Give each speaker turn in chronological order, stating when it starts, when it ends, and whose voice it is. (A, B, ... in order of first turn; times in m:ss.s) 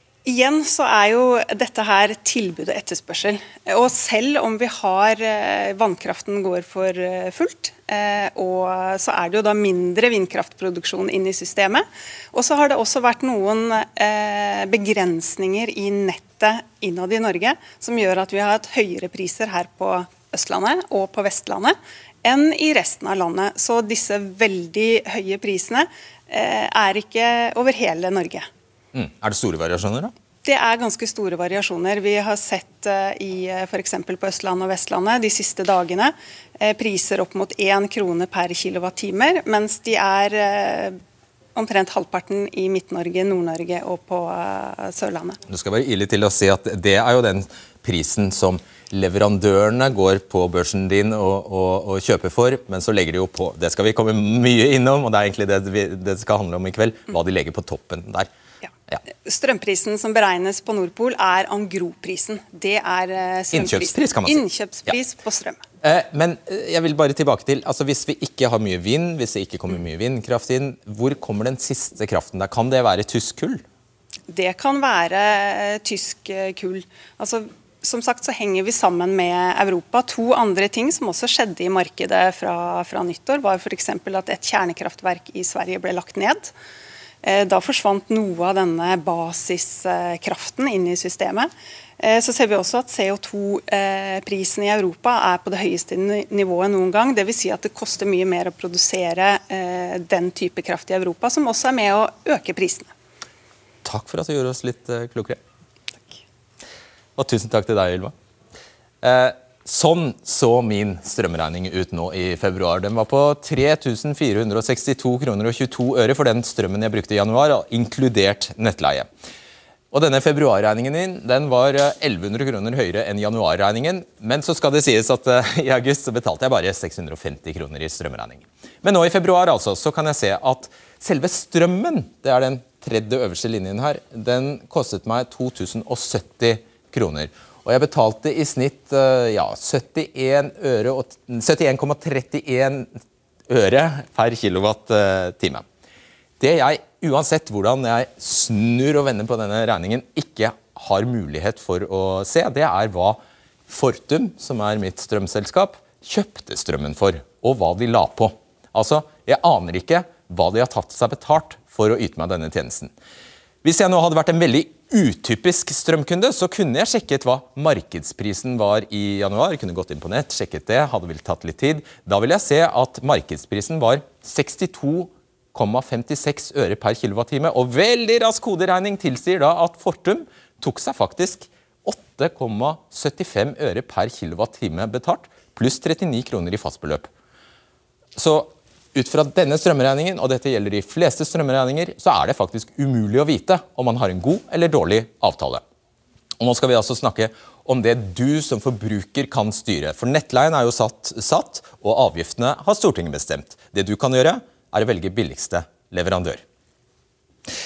0:00.2-0:28.5 A
0:28.9-0:30.1 B
0:30.4-0:41.0 A
0:41.6-0:45.4 A
0:45.5-0:58.3 B
0:59.2-1:05.6 A
1:03.5-1:05.0 B
1:05.8-1:13.6 B
1:14.3-1:26.5 A
1:27.2-1:42.9 A
1:43.8-1:45.4 B
1:47.2-1:48.1 B
1:49.0-1:59.1 B
1:59.9-2:22.9 B
2:23.5-2:25.6 B
2:26.4-2:42.9 B
2:43.6-3:07.1 B
3:08.2-3:15.6 B
3:16.4-3:26.4 B